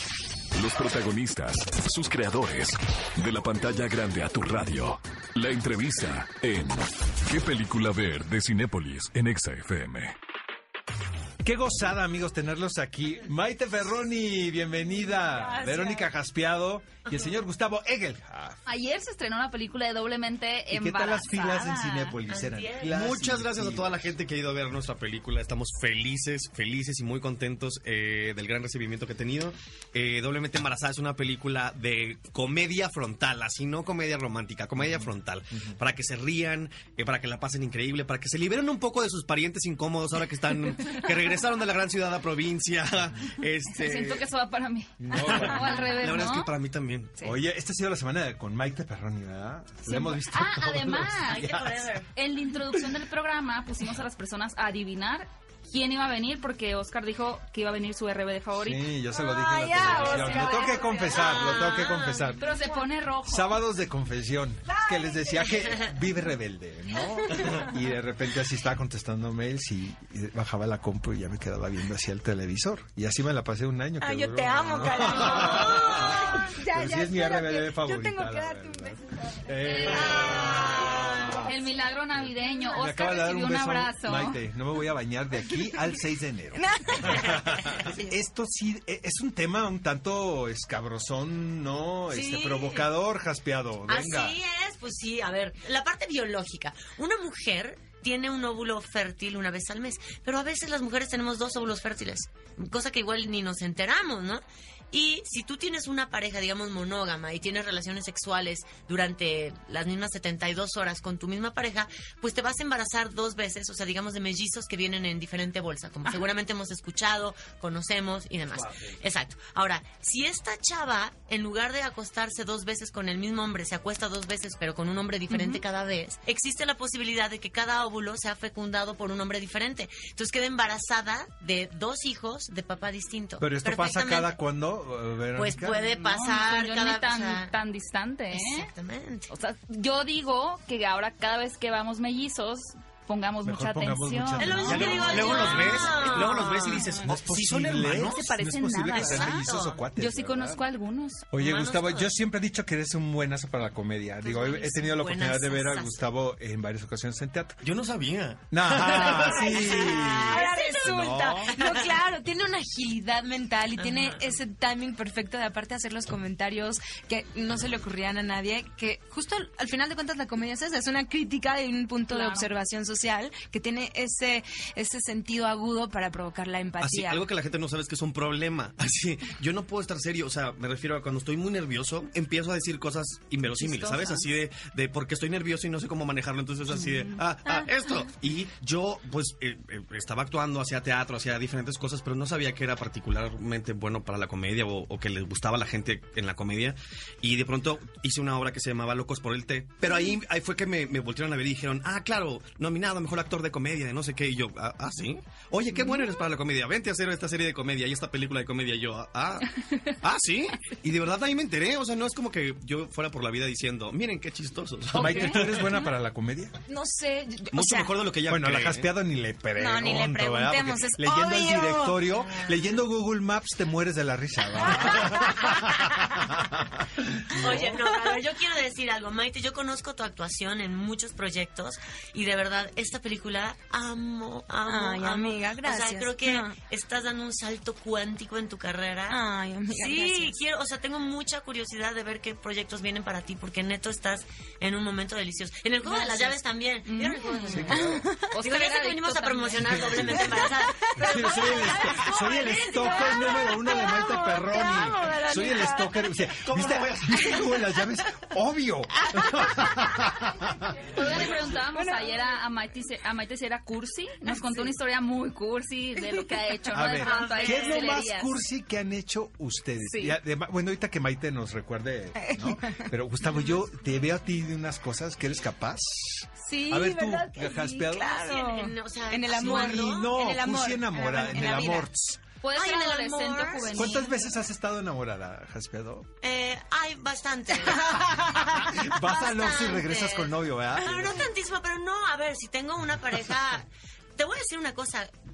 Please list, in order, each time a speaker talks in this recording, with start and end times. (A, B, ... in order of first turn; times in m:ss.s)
0:00.5-0:10.1 A
0:11.4-0:18.6 B
0:15.1-0:16.1 C
0:17.1-0:17.4 D
0:18.6-0:22.0 E
0:20.7-0:24.1 B
0:22.2-0:22.9 D
0:22.9-0:44.3 F
0:34.8-0:35.1 B
0:43.7-0:46.5 E
0:45.0-0:45.9 B
0:45.1-0:45.5 C
0:45.6-0:47.3 F
0:47.2-0:51.9 B
0:49.8-0:51.5 E
0:51.2-0:52.1 D
0:52.1-0:58.9 E
0:58.6-1:02.5 B
0:59.2-1:01.4 C
0:59.7-1:01.3 E
1:01.1-1:02.4 D
1:02.4-1:03.6 E
1:03.2-1:21.6 B
1:04.8-1:05.5 C
1:07.4-1:07.6 C
1:14.0-1:21.4 C
1:19.6-1:24.4 E
1:22.1-1:34.4 B
1:25.5-1:26.0 C
1:26.5-1:27.9 C
1:32.1-1:32.9 D
1:33.9-2:14.3 D
1:58.5-1:58.9 F
2:05.3-2:05.6 C
2:13.4-2:15.8 B
2:15.3-2:17.6 D
2:15.8-2:18.7 E
2:18.3-2:19.3 D
2:19.3-2:27.1 E
2:23.4-2:25.9 B
2:24.4-2:26.9 D
2:24.6-2:28.2 F
2:27.0-2:30.6 B
2:28.0-2:28.3 D
2:28.1-2:29.4 E
2:28.3-2:29.3 C
2:28.9-2:29.8 D
2:29.9-2:31.3 E
2:31.3-2:37.6 B
2:31.4-2:32.1 D
2:34.2-2:36.0 D
2:37.6-2:40.1 F
2:38.5-2:41.6 B
2:39.0-2:57.2 C
2:40.3-2:42.0 D
2:43.8-2:44.4 D
2:52.1-2:52.5 E
2:56.8-3:35.7 F
3:03.6-3:04.2 C
3:25.7-3:26.0 C
3:34.9-3:36.5 B
3:35.0-3:35.9 C
3:36.7-3:37.9 C
3:37.5-3:38.9 F
3:38.3-3:47.5 B
3:39.6-3:42.1 C
3:42.1-3:42.8 D
3:44.6-3:45.1 D
3:44.8-3:45.7 C
3:47.3-4:11.6 D
3:54.6-3:56.5 C
3:59.1-4:00.4 C
4:06.0-4:06.3 E
4:06.8-4:10.2 E
4:07.5-4:08.1 B
4:07.7-4:08.2 C
4:09.6-4:10.3 B
4:10.0-4:16.2 C
4:10.9-4:20.3 B
4:16.4-4:17.3 F
4:17.2-4:17.6 C
4:19.1-4:20.2 C
4:20.9-4:28.3 E
4:21.0-4:22.2 C
4:24.3-4:24.7 C
4:26.7-4:38.2 B
4:27.0-4:27.9 D
4:29.8-4:30.2 C
4:32.2-4:33.5 C
4:36.4-4:41.9 C
4:38.1-4:40.1 D
4:39.3-4:42.2 B
4:42.4-4:44.0 E
4:42.5-4:44.3 D
4:43.7-4:46.1 B
4:46.2-4:48.1 D
4:47.9-4:51.2 B
4:48.9-4:55.1 D